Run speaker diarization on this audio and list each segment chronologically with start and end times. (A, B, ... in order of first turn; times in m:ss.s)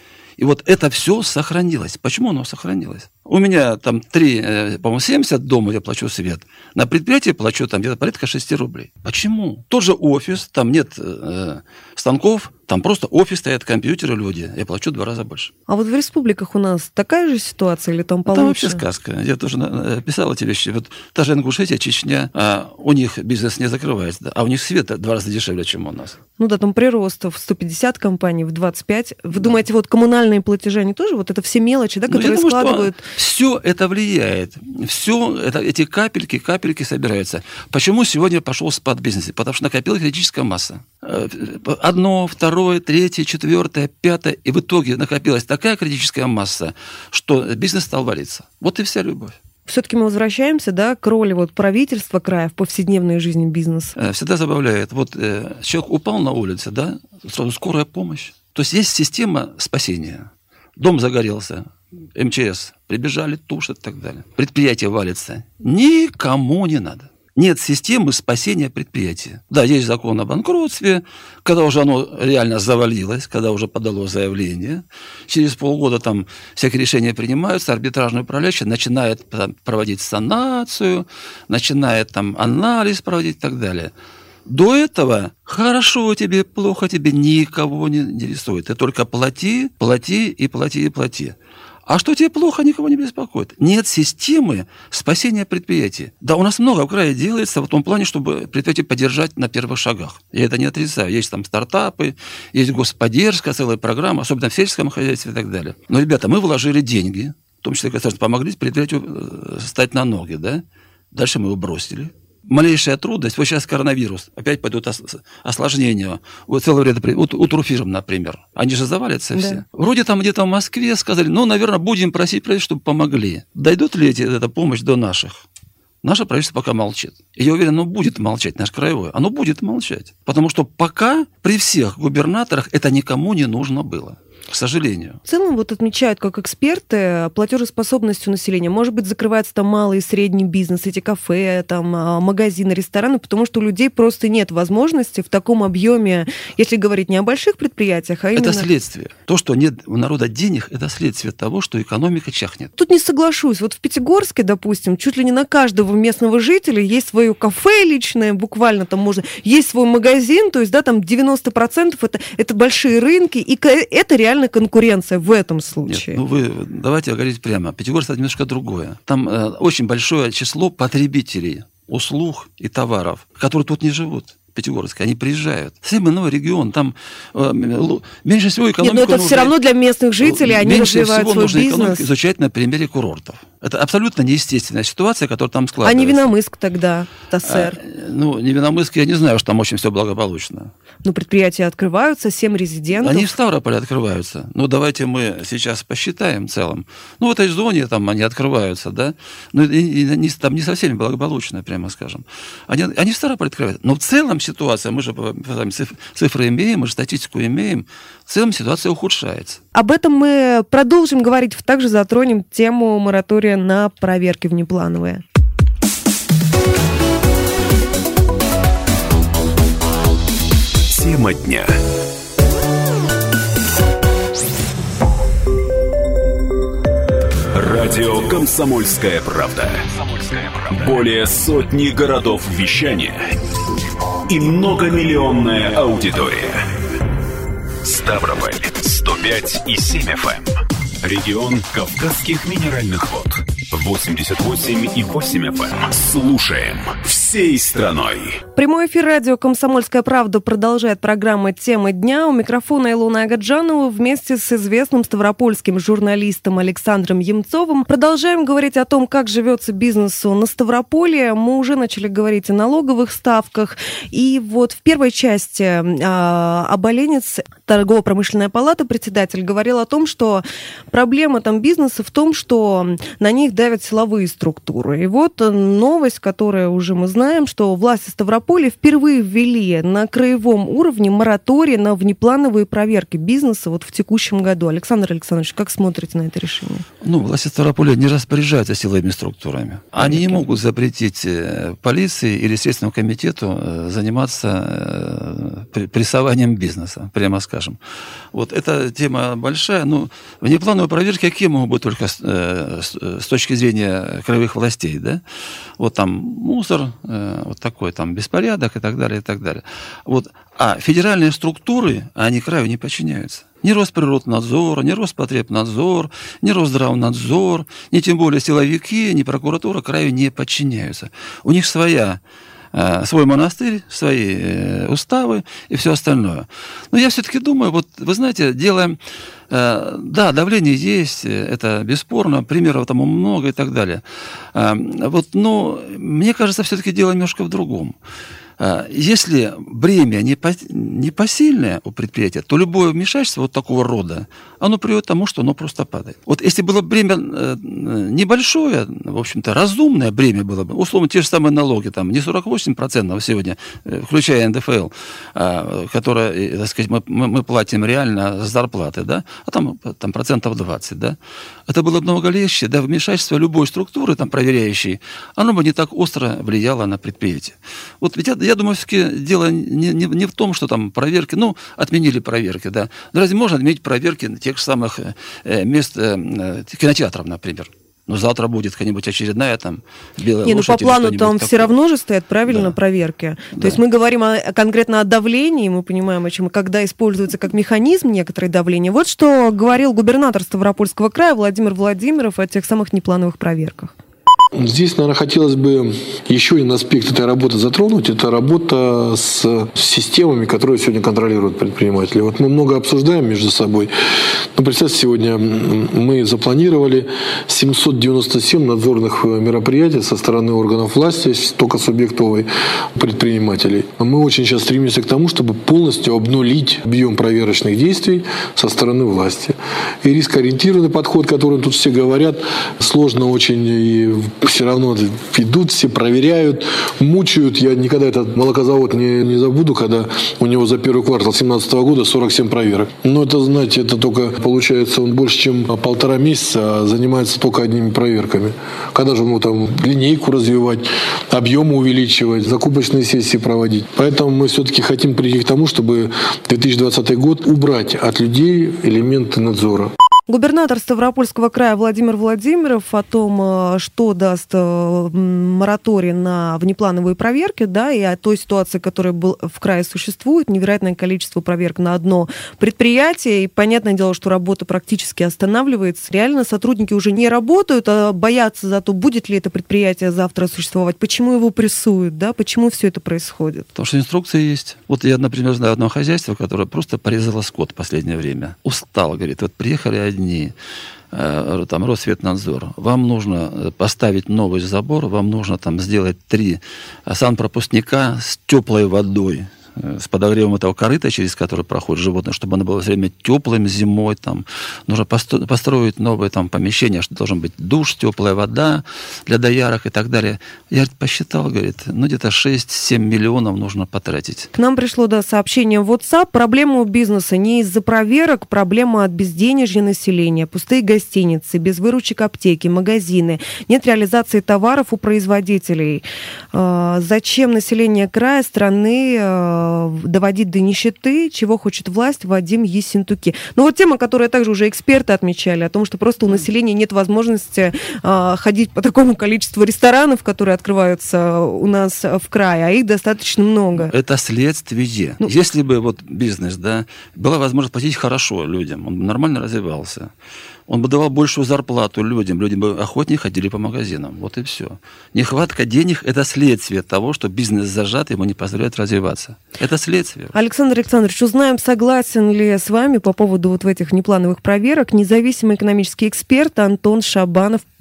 0:00.4-0:15.5 A
0:15.7-0:18.8 B
0:18.3-0:26.2 A
0:26.4-0:33.0 B
0:32.1-0:49.4 A
0:49.6-0:53.9 B
0:54.0-1:23.9 A
1:24.5-1:31.3 A
1:31.9-2:05.4 A
1:59.4-1:59.6 B
2:06.0-2:15.2 A
2:15.2-2:28.7 B
2:28.4-2:32.7 A
2:32.8-2:46.2 B
2:45.8-2:59.6 A
2:58.8-3:02.1 B
3:00.2-3:06.3 A
3:05.8-3:07.8 B
3:07.4-3:10.7 A
3:11.0-3:13.3 B
3:13.0-3:29.6 A
3:29.7-3:35.2 B
3:40.9-3:41.7 C
3:47.5-3:53.3 C
3:54.3-3:56.7 C
3:57.8-4:08.4 C
4:08.5-4:46.8 B
4:47.0-4:57.8 A
4:50.0-4:50.5 B
4:58.3-5:05.2 A
5:05.8-5:22.2 A
5:22.7-5:29.0 A
5:29.5-5:34.0 A
5:34.5-5:38.0 A
5:38.6-6:01.2 A
6:01.7-6:21.7 A
6:20.4-6:33.9 B
6:22.5-6:22.8 A
6:23.5-6:23.8 A
6:34.5-6:43.9 D
6:44.5-7:29.9 D
7:30.3-7:53.7 B
7:53.8-8:00.5 A
8:01.1-8:24.5 A
8:24.6-8:53.9 B
8:53.8-9:00.1 A
9:00.7-9:10.3 A
9:10.3-9:17.6 B